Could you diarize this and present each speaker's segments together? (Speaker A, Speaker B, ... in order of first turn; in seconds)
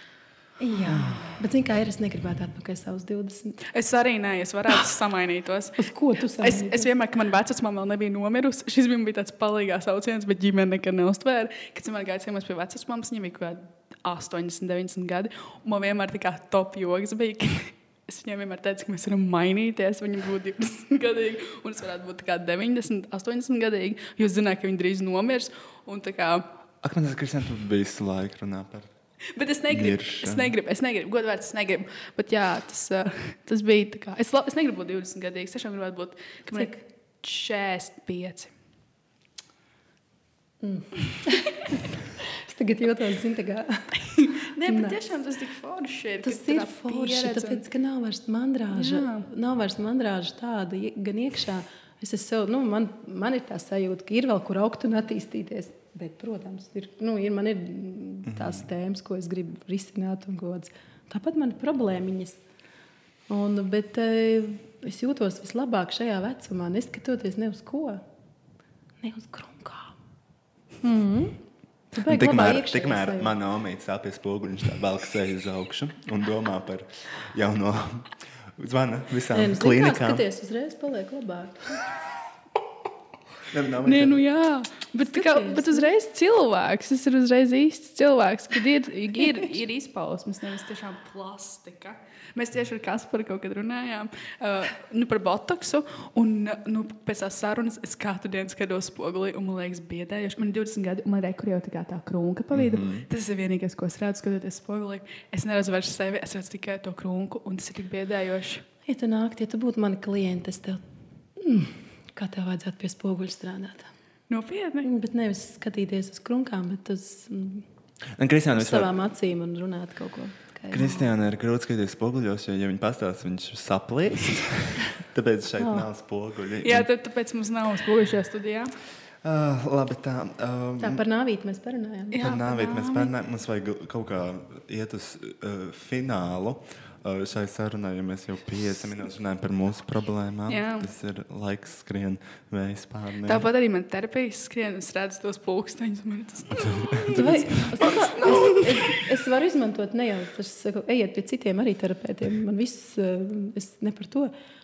Speaker A: 0.6-3.6, 5.8-6.9, 40.6-45.0, 46.2-62.4, 63.3-68.0, 69.0-70.0, 70.8-71.4, 71.9-73.3, 79.3-81.7, 85.1-85.9, 108.8-110.8, 111.3-113.9, 114.8-117.7, 118.5-121.1, 125.6-125.9, 130.8-132.3, 147.0-154.3
Speaker B: 0.8-1.4, 26.8-28.9, 29.7-30.5, 58.2-58.6, 72.0-80.2, 83.5-84.2, 102.5-103.0, 118.2-118.9, 120.7-126.9, 129.2-131.0, 132.2-143.5, 146.6-147.7
Speaker C: 3.7-5.8, 6.4-26.5, 29.3-38.5, 44.1-47.6, 48.7-49.3, 83.8-108.6, 114.3-114.9, 126.6-128.7, 132.1-133.1, 140.5-140.9, 143.3-149.0